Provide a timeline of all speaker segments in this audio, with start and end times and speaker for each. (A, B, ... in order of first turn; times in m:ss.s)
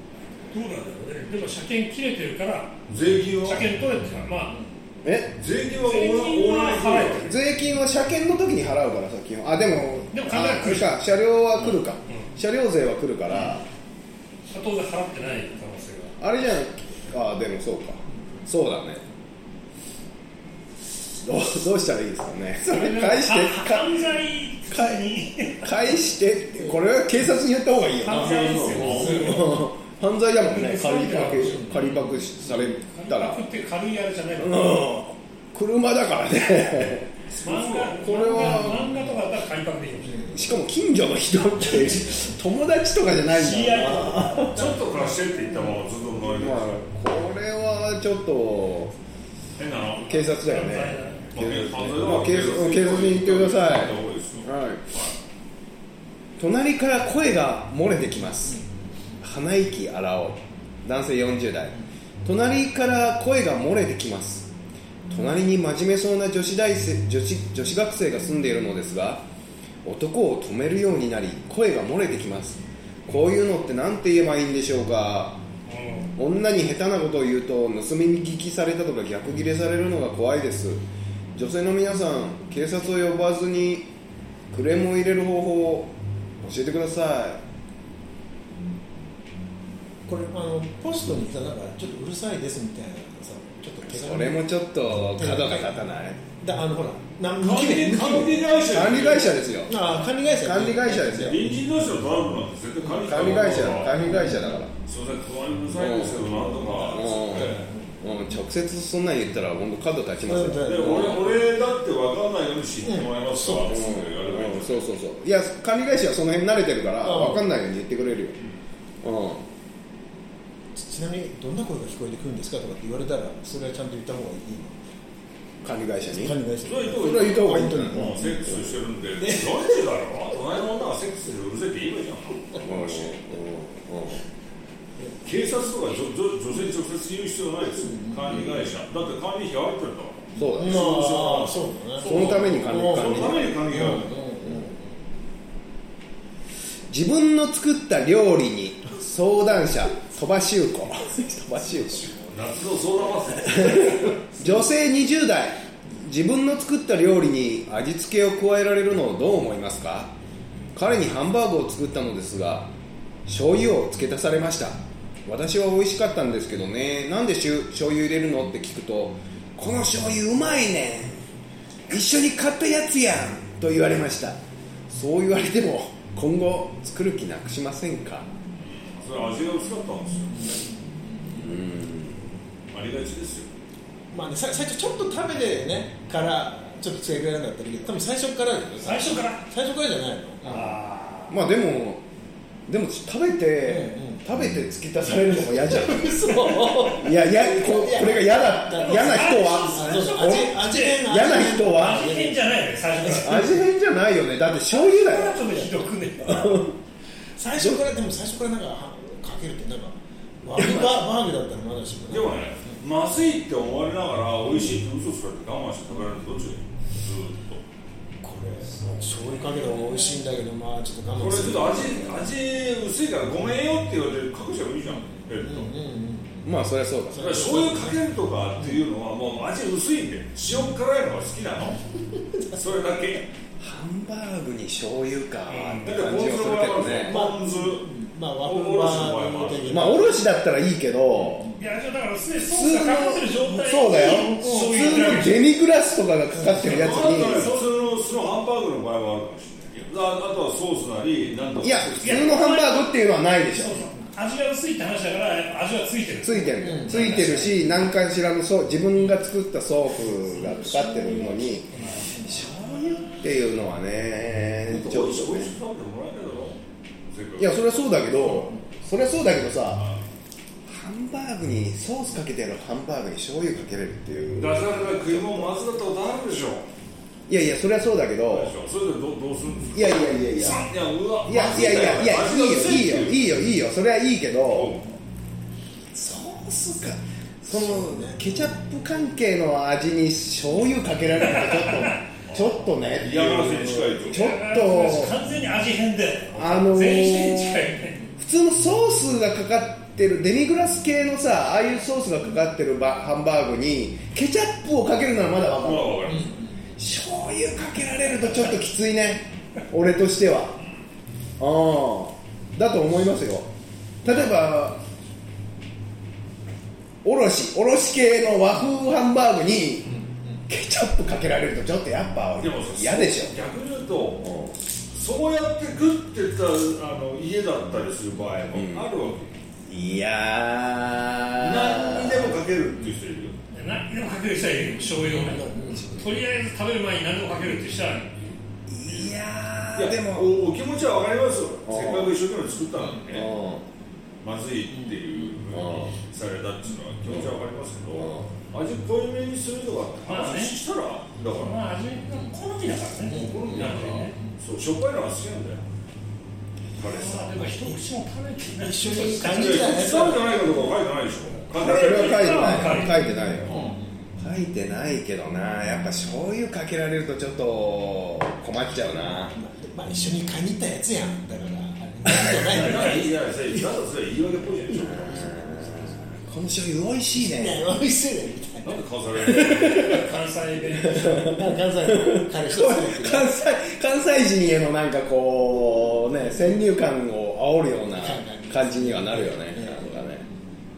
0:00.5-0:02.8 A
0:02.9-0:03.7 B
0:03.4-0:04.6 A
0:05.0-0:05.4 C
0:05.4-0:07.2 B
0:05.8-0:07.4 A
0:07.2-0:13.6 C
0:10.1-0:11.0 A
0:14.5-0:16.2 A
0:16.2-0:19.0 C
0:21.2-0:24.0 C
0:22.6-0:25.7 A
0:24.7-0:33.4 C
0:28.0-0:29.6 A
0:28.1-0:29.4 B
0:30.4-0:34.7 A
0:31.6-0:31.9 D
0:34.4-0:37.1 C
0:37.3-0:38.0 B
0:37.4-0:40.5 A
0:38.0-0:39.0 C
0:40.1-0:40.4 D
0:40.3-0:44.7 C
0:43.3-0:44.6 A
0:44.5-0:46.8 B
0:46.2-0:48.9 C
0:49.6-0:50.2 B
0:50.0-0:54.8 C
0:50.4-0:51.2 A
0:51.3-0:55.1 B
0:56.4-0:58.6 C
0:59.2-1:04.5 C
1:05.1-1:09.2 C
1:09.8-1:15.4 C
1:15.7-1:16.1 A
1:16.2-1:20.8 C
1:21.3-1:23.9 C
1:24.5-1:27.4 C
1:30.0-1:34.5 D
1:33.9-1:36.2 C
1:35.0-1:35.7 D
1:36.4-1:38.6 D
1:37.4-1:39.4 B
1:38.7-1:39.8 C
1:39.6-1:41.6 D
1:40.3-1:41.4 C
1:41.2-1:44.3 B
1:42.8-1:44.6 D
1:43.0-1:44.7 C
1:44.8-1:47.6 B
1:45.7-1:51.3 C
1:46.4-1:48.0 D
1:50.2-1:51.4 D
1:50.6-1:54.8 B
1:52.8-1:53.7 D
1:53.6-1:58.4 C
1:57.0-1:57.4 D
1:59.0-1:59.4 C
2:00.7-2:04.8 D
2:05.6-2:06.4 C
2:06.1-2:08.6 D
2:06.6-2:13.1 B
2:06.9-2:08.5 C
2:09.2-2:09.8 D
2:12.6-2:14.2 C
2:15.2-2:24.2 B
2:17.8-2:18.4 D
2:20.4-2:21.0 C
2:20.5-2:25.0 D
2:22.0-2:23.6 C
2:26.9-2:32.1 C
2:31.9-2:34.2 B
2:33.4-2:40.1 C
2:40.7-2:42.7 C
2:43.2-2:51.2 C
2:51.9-2:58.3 C
2:58.6-3:00.5 B
3:00.4-3:00.7 D
3:01.4-3:02.2 C
3:02.7-3:03.5 B
3:04.1-3:10.7 D
3:08.8-3:09.4 A
3:10.4-3:11.4 A
3:11.3-3:12.0 C
3:12.7-3:16.3 C
3:13.6-3:14.2 D
3:15.4-3:22.4 D
3:16.9-3:22.1 C
3:18.8-3:23.6 A
3:23.0-3:23.4 D
3:23.1-3:26.8 C
3:24.7-3:26.6 A
3:27.4-3:32.8 D
3:27.6-3:27.8 C
3:30.5-3:31.0 C
3:32.1-3:37.6 B
3:38.2-3:42.3 D
3:41.2-3:45.7 B
3:44.9-3:46.5 D
3:46.4-3:47.4 C
3:47.1-3:48.0 D
3:47.2-3:51.8 B
3:48.6-3:48.8 D
3:52.5-3:53.3 B
3:53.6-3:57.2 C
3:55.5-3:55.9 A
3:55.8-3:57.9 B
3:57.0-4:00.2 D
3:58.4-4:00.0 B
3:59.7-4:01.5 C
4:01.2-4:01.6 D
4:01.6-4:05.4 A
4:02.5-4:07.5 C
4:06.5-4:12.3 B
4:11.6-4:13.9 C
4:12.0-4:12.9 A
4:13.5-4:17.6 A
4:16.2-4:25.5 C
4:16.6-4:17.5 D
4:20.4-4:21.4 D
4:21.8-4:22.1 A
4:22.0-4:22.3 D
4:24.7-4:27.7 B
4:27.4-4:29.8 C
4:30.7-4:35.5 C
4:34.4-4:36.7 B
4:37.3-4:38.5 C
4:38.3-4:43.4 B
4:39.7-4:40.6 C
4:41.2-4:44.8 C
4:44.5-4:45.0 B
4:45.9-4:55.2 C
4:47.5-4:48.4 D
4:51.4-4:51.9 A
4:52.3-4:54.3 B
4:54.1-4:58.0 A
4:56.3-5:06.2 C
5:05.6-5:06.4 B
5:06.1-5:06.6 D
5:06.8-5:10.6 C
5:11.4-5:13.5 C
5:14.0-5:14.8 C
5:17.0-5:23.4 C
5:22.4-5:24.3 B
5:24.2-5:24.6 C
5:24.9-5:29.3 B
5:28.5-5:28.9 C
5:29.7-5:32.4 C
5:31.4-5:33.4 B
5:33.5-5:38.4 A
5:34.6-5:36.1 D
5:38.7-5:40.3 C
5:39.7-5:43.3 B
5:41.6-5:42.1 C
5:42.8-5:43.0 D
5:43.1-5:43.6 C
5:44.2-5:51.6 B
5:45.5-5:45.9 C
5:48.0-5:48.3 C
5:50.0-5:50.6 A
5:51.4-5:54.1 A
5:53.1-5:54.3 D
5:53.1-5:55.6 B
5:56.8-5:57.7 B
5:56.8-6:00.1 A
5:58.5-6:00.6 D
5:59.2-6:02.6 B
6:01.5-6:03.0 A
6:01.6-6:03.6 C
6:02.6-6:02.9 D
6:03.4-6:03.9 D
6:04.2-6:09.4 C
6:09.3-6:13.6 D
6:12.3-6:15.2 B
6:14.8-6:16.0 D
6:14.9-6:17.6 C
6:17.2-6:18.8 D
6:18.6-6:20.0 B
6:19.3-6:20.0 C
6:19.6-6:21.3 A
6:20.9-6:30.2 C
6:21.0-6:23.3 D
6:27.9-6:30.4 D